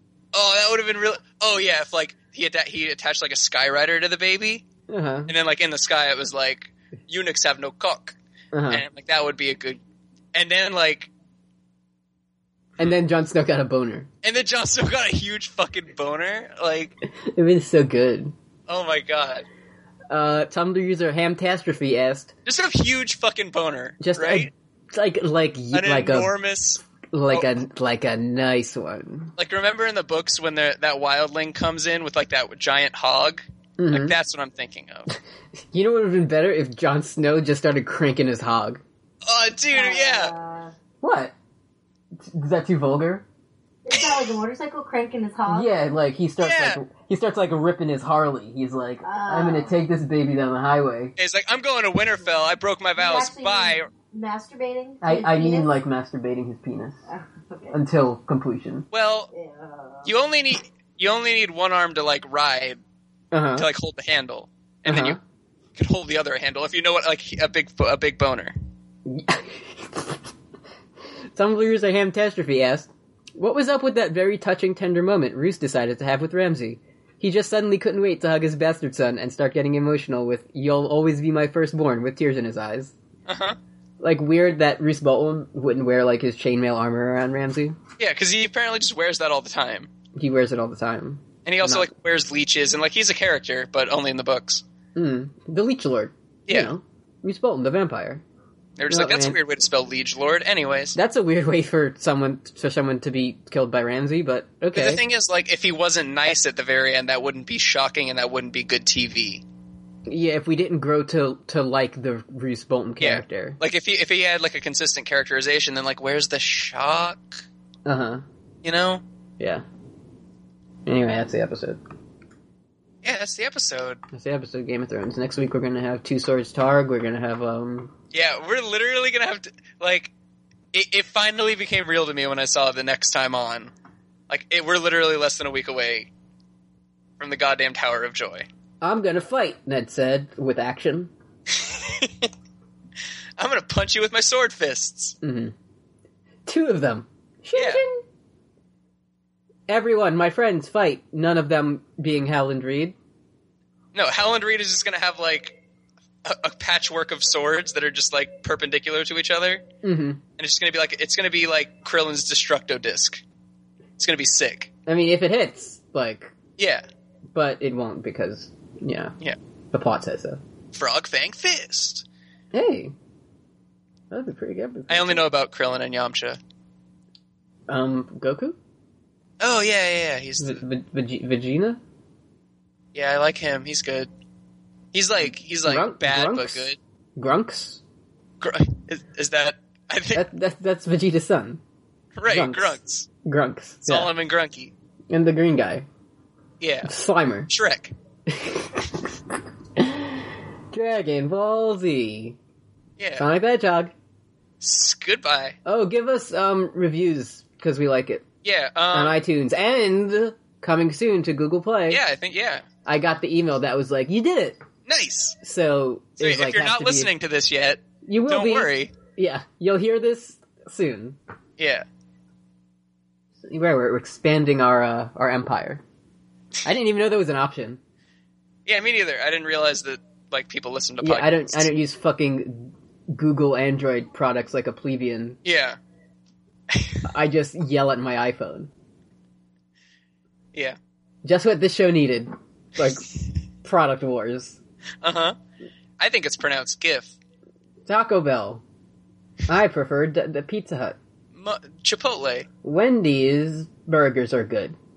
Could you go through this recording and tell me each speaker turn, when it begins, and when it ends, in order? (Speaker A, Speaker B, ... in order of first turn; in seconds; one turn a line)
Speaker A: 0.3-4.6
Speaker B: 4.9-5.3
Speaker A: 5.3-8.2
Speaker B: 8.5-8.8
Speaker A: 8.7-9.8
Speaker A: 10.3-11.1
Speaker B: 12.8-14.1
Speaker A: 14.2-16.9
Speaker B: 17.0-18.3
Speaker A: 18.7-19.4
Speaker B: 20.1-22.3
Speaker A: 22.4-24.5
Speaker B: 24.0-26.3
Speaker A: 25.7-27.5
Speaker B: 27.1-29.3
Speaker A: 29.4-35.1
Speaker B: 33.8-34.1
Speaker B: 35.7-38.8
Speaker A: 39.2-40.3
Speaker C: 39.7-40.7
Speaker B: 41.0-41.3
Speaker B: 42.1-43.2
Speaker C: 43.8-45.7
Speaker B: 45.5-51.1
Speaker A: 46.4-46.8
Speaker C: 49.0-49.8
Speaker A: 51.2-53.9
Speaker C: 53.0-55.7
Speaker B: 55.0-57.0
Speaker C: 57.1-57.8
Speaker B: 57.7-58.9
Speaker A: 58.9-59.3
Speaker C: 59.3-60.1
Speaker A: 60.0-62.8
Speaker B: 63.3-63.7
Speaker A: 63.5-65.2
Speaker B: 64.9-65.2
Speaker A: 65.8-68.5
Speaker B: 69.0-70.2
Speaker B: 71.3-82.9
Speaker A: 83.3-83.6
Speaker B: 84.0-87.8
Speaker A: 88.0-89.9
Speaker B: 90.1-91.9
Speaker A: 91.4-94.6
Speaker B: 94.9-98.2
Speaker A: 96.5-96.7
Speaker A: 98.8-101.0
Speaker B: 98.9-99.4
Speaker B: 100.9-105.0
Speaker A: 104.7-109.4
Speaker B: 110.1-113.6
Speaker A: 113.0-117.4
Speaker B: 117.8-118.2
Speaker A: 118.6-119.0
Speaker B: 119.4-119.6
Speaker B: 120.8-121.8
Speaker A: 123.0-124.0
Speaker B: 124.1-127.9
Speaker A: 128.1-130.1
Speaker A: 130.7-133.7
Speaker A: 134.3-136.1
Speaker A: 137.2-138.5
Speaker B: 138.8-141.1
Speaker A: 141.5-142.3
Speaker A: 143.4-145.2
Speaker B: 145.2-145.5
Speaker B: 146.4-148.0
Speaker A: 147.5-147.8
Speaker B: 149.7-152.9
Speaker A: 153.9-155.6
Speaker A: 156.2-159.6
Speaker B: 159.8-160.2
Speaker A: 160.4-163.2
Speaker A: 164.0-164.7
Speaker B: 164.9-166.3
Speaker A: 166.6-166.8
Speaker B: 167.3-169.2
Speaker B: 169.7-170.4
Speaker A: 170.7-172.0
Speaker B: 172.5-172.9
Speaker B: 174.1-175.2
Speaker A: 174.9-176.4
Speaker B: 177.7-178.6
Speaker A: 179.4-180.6
Speaker B: 180.4-181.8
Speaker A: 182.9-184.1
Speaker A: 184.9-186.8
Speaker B: 185.7-186.6
Speaker B: 187.2-187.8
Speaker A: 188.4-190.2
Speaker B: 190.1-191.6
Speaker A: 192.1-193.1
Speaker B: 192.3-194.1
Speaker A: 193.8-194.7
Speaker B: 195.1-195.8
Speaker A: 196.6-196.9
Speaker B: 196.8-197.5
Speaker A: 197.5-197.9
Speaker B: 198.3-199.1
Speaker B: 199.8-202.4
Speaker A: 203.0-203.3
Speaker B: 203.2-203.9
Speaker A: 204.6-205.6
Speaker B: 205.6-208.2
Speaker A: 208.4-209.2
Speaker B: 208.9-212.0
Speaker A: 211.9-212.7
Speaker B: 212.8-214.6
Speaker A: 214.9-215.4
Speaker B: 215.4-217.1
Speaker A: 216.2-218.9
Speaker B: 218.0-221.2
Speaker A: 221.6-221.8
Speaker B: 223.4-225.8
Speaker B: 226.6-227.8
Speaker A: 228.7-231.7
Speaker B: 231.0-235.4
Speaker A: 235.4-235.8
Speaker A: 236.7-237.0
Speaker B: 237.1-238.7
Speaker A: 240.5-240.8
Speaker B: 241.2-244.6
Speaker A: 245.0-245.4
Speaker A: 246.0-247.2
Speaker B: 247.8-248.6
Speaker B: 249.5-251.0
Speaker A: 251.3-252.5
Speaker B: 252.6-254.8